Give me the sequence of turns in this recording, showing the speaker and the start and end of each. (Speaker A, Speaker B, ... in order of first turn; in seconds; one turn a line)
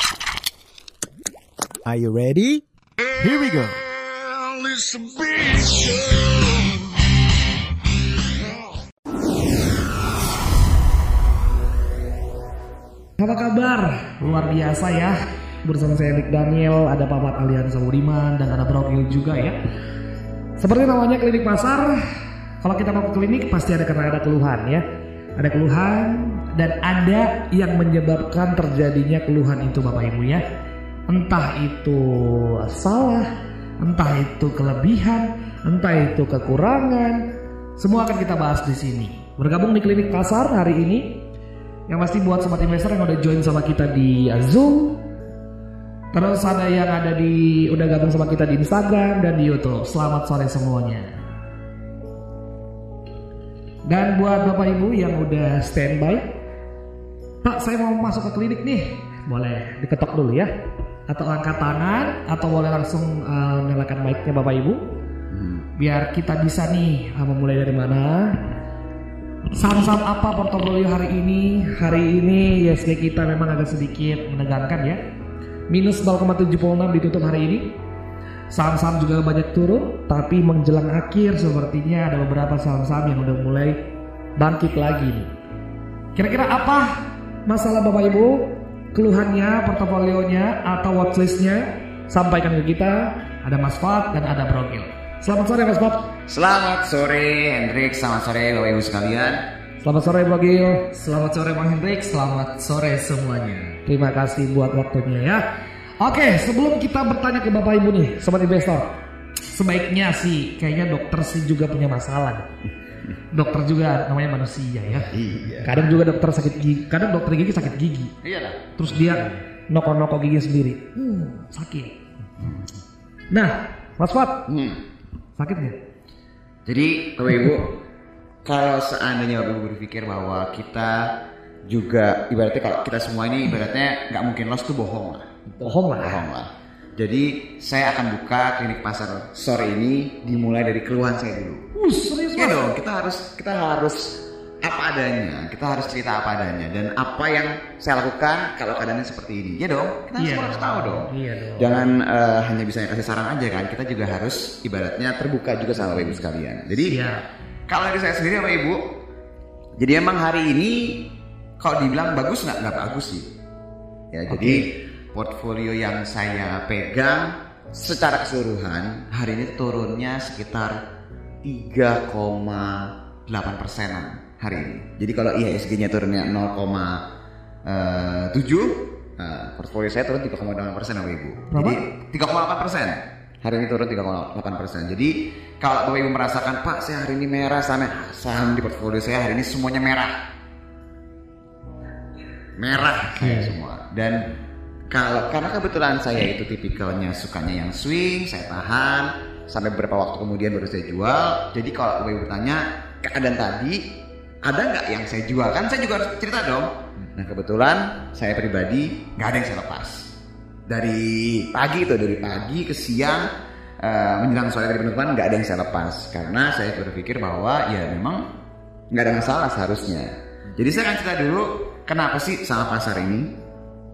Speaker A: 1.9-2.6
Speaker A: 3.2-6.4
Speaker B: 13.2-19.6
Speaker B: 20.6-22.0
Speaker B: 22.6-24.8
Speaker B: 25.4-30.4
Speaker B: 31.1-37.2
Speaker B: 37.8-41.0
Speaker B: 41.9-45.0
Speaker B: 46.1-51.2
Speaker B: 53.9-56.2
Speaker B: 57.4-60.5
Speaker B: 61.1-64.8
Speaker C: 65.3-65.7
Speaker B: 65.8-68.3
Speaker B: 69.5-75.0
Speaker B: 75.7-77.7
Speaker B: 78.5-83.8
Speaker B: 84.4-85.3
Speaker B: 86.2-87.0
Speaker B: 87.5-96.0
Speaker C: 96.3-99.4
Speaker B: 99.8-100.9
Speaker D: 100.9-103.8
Speaker B: 103.8-105.4
Speaker B: 106.0-108.9
Speaker B: 109.5-112.5
Speaker B: 113.3-115.1
Speaker C: 115.1-115.9
Speaker B: 115.6-118.1
Speaker C: 118.2-118.9
Speaker B: 118.8-121.9
Speaker B: 123.3-124.4
Speaker C: 124.5-124.8
Speaker B: 125.4-125.8
Speaker C: 126.7-127.7
Speaker C: 128.4-131.1
Speaker C: 131.7-135.3
Speaker B: 135.6-136.2
Speaker C: 135.9-141.7
Speaker B: 141.8-142.6
Speaker C: 142.3-157.0
Speaker B: 150.2-151.8
Speaker B: 156.9-157.2
Speaker C: 157.7-158.8
Speaker C: 159.8-161.0
Speaker C: 161.6-163.3
Speaker C: 164.1-170.8
Speaker B: 164.3-164.6
Speaker C: 171.4-177.0
Speaker C: 177.6-190.1
Speaker B: 181.5-181.8
Speaker C: 192.6-194.3
Speaker C: 194.9-203.8
Speaker C: 204.4-210.1
Speaker C: 210.7-213.3
Speaker C: 213.8-218.2
Speaker C: 218.9-223.3